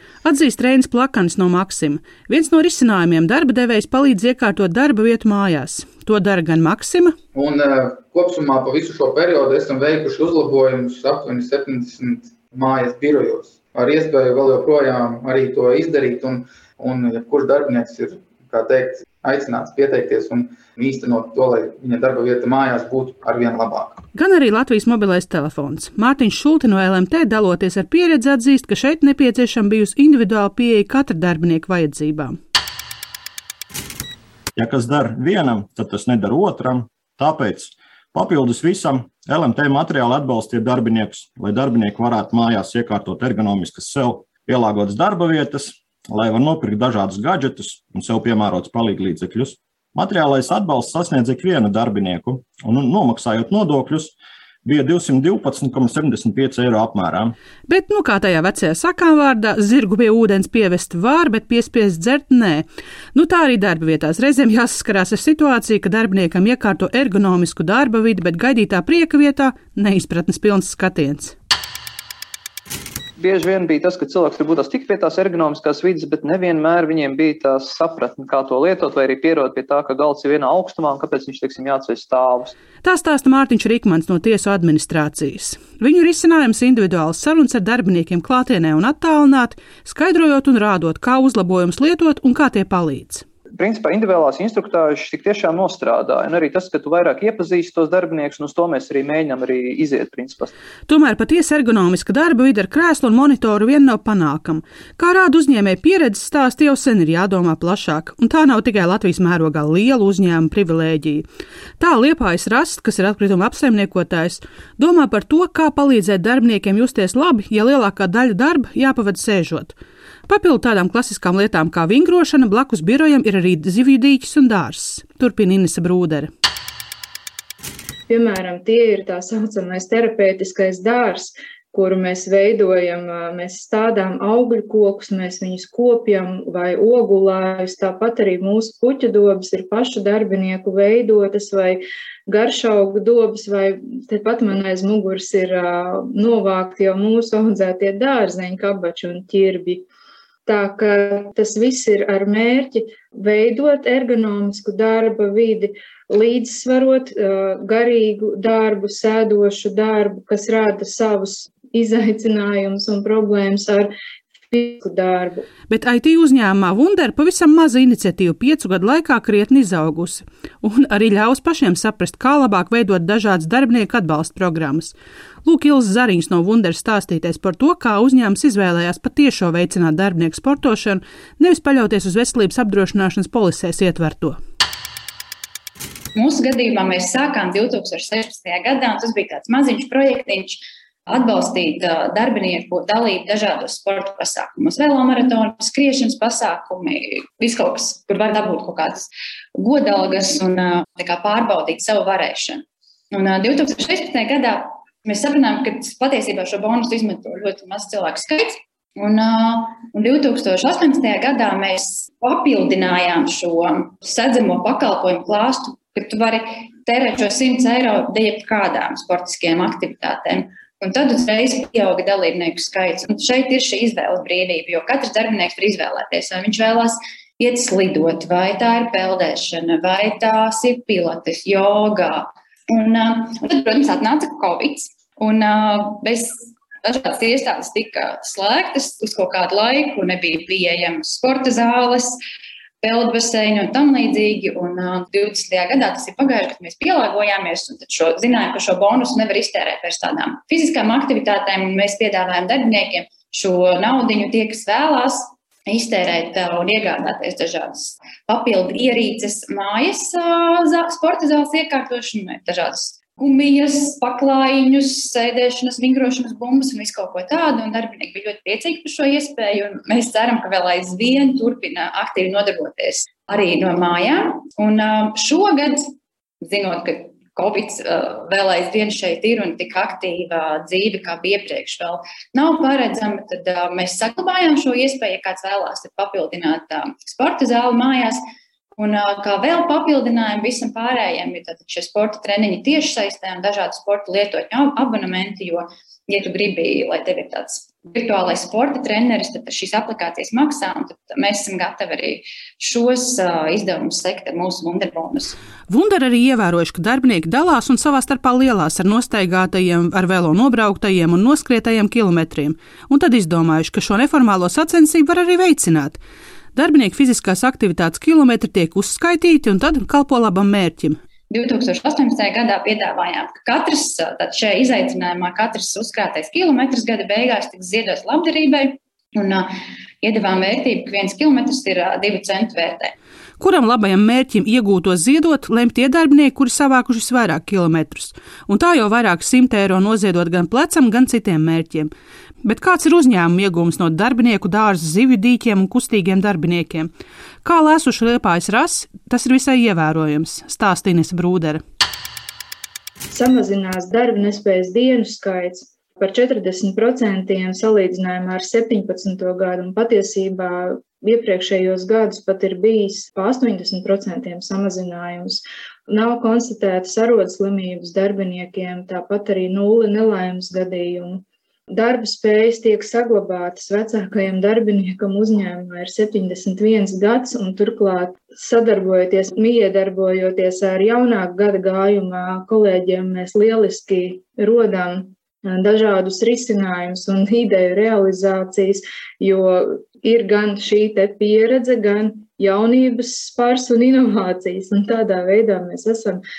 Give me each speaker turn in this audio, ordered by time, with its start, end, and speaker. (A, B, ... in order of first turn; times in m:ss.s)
0:00.2-0:07.2 A
0:07.3-0:24.0 B
0:24.1-0:32.4 A
0:34.6-0:54.1 C
0:54.6-0:57.3 C
0:57.7-1:11.3 A
1:13.2-1:22.5 D
1:22.8-1:33.2 A
1:33.6-1:40.5 D
1:40.9-1:51.3 A
1:51.8-1:59.8 A
2:00.3-2:06.3 A
2:08.1-2:29.8 E
2:30.5-2:43.9 E
2:44.5-2:45.4 E
2:45.7-3:04.4 A
3:06.2-4:02.2 F
4:02.8-4:35.9 F
4:36.4-4:48.2 F
4:48.8-5:05.4 F
5:05.7-5:16.0 A
5:16.6-5:21.0 A
5:21.3-5:29.5 F
5:30.0-5:32.9 F
5:33.4-5:41.9 A
5:42.4-5:46.9 A
5:47.4-5:51.6 A
5:53.1-6:36.2 E